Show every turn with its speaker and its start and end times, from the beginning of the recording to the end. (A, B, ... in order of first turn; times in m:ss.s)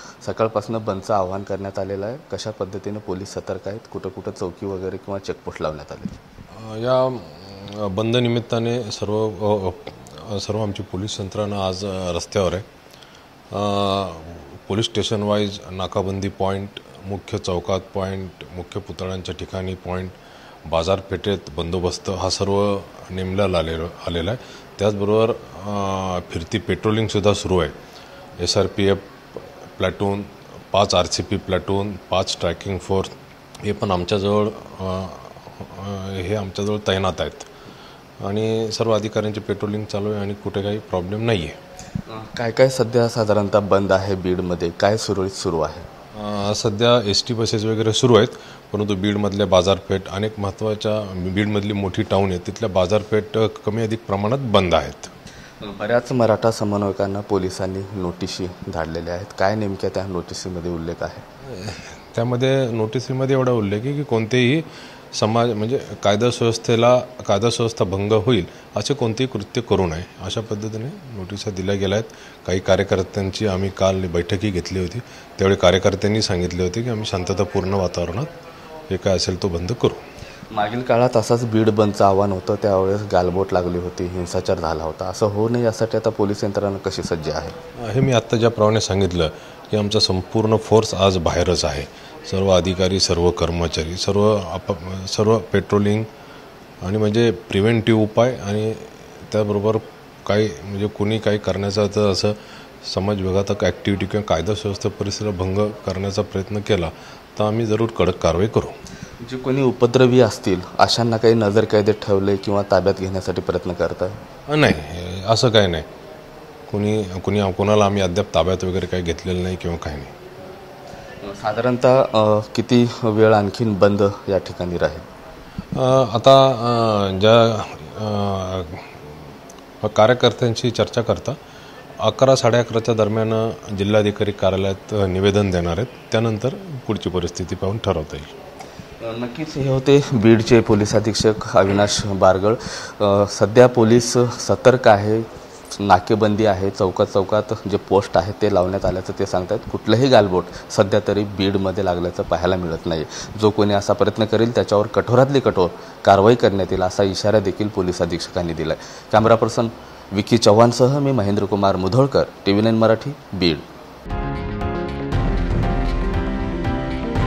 0:00.2-0:06.2 A
0:06.6-0:12.6 B
0:13.5-0:20.2 B
0:20.7-0:27.8 B
0:28.4-0:33.1 B
0:33.6-0:37.5 B
0:38.2-0:41.6 B
0:42.1-0:45.9 A
0:46.2-0:55.1 B
0:55.6-1:01.2 A
1:01.5-1:18.3 B
1:18.9-1:20.0 B
1:20.5-1:27.6 A
1:27.8-1:36.1 B
1:36.8-1:48.8 B
1:49.2-1:54.2 A
1:54.5-1:55.9 B
1:56.7-2:00.1 B
2:01.2-2:05.0 A
2:05.8-2:09.1 B
2:09.8-2:11.4 B
2:12.0-2:18.3 B
2:19.0-2:43.7 A